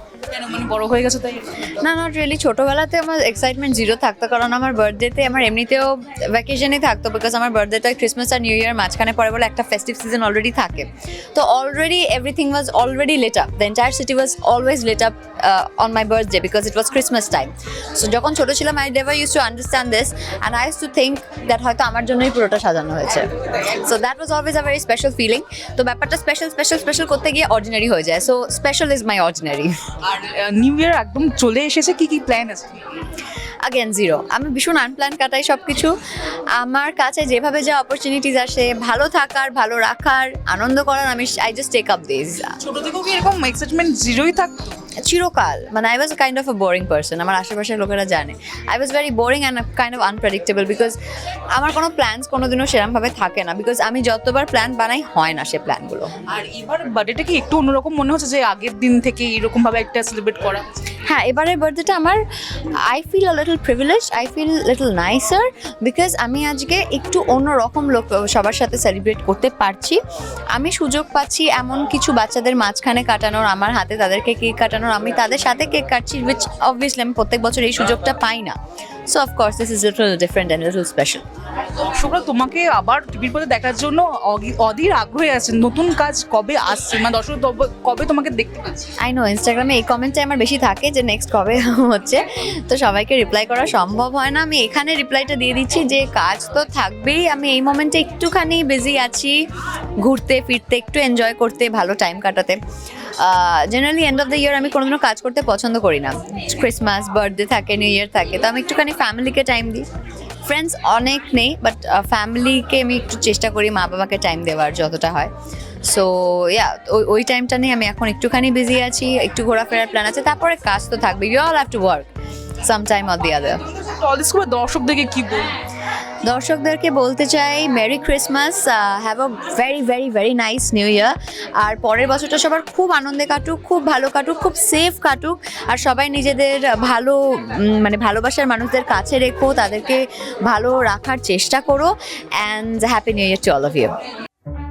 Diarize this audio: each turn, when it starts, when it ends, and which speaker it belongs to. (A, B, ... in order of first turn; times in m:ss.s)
0:00.3-0:01.5 A
0:01.7-0:29.7 B
0:30.0-0:32.8 A
0:33.6-0:35.9 B
0:36.6-0:42.5 B
0:42.7-0:44.8 A
0:45.0-0:51.0 B
0:51.5-0:56.1 B
0:56.3-1:00.8 A
1:01.0-1:02.2 B
1:02.9-1:10.0 B
1:10.5-1:18.5 B
1:19.1-1:21.2 B
1:21.7-1:28.9 A
1:29.0-1:39.4 B
1:40.0-1:42.6 B
1:43.2-1:49.9 B
1:50.4-1:55.3 B
1:55.8-2:02.1 B
2:02.6-2:03.6 B
2:03.7-2:05.6 A
2:06.2-2:23.9 B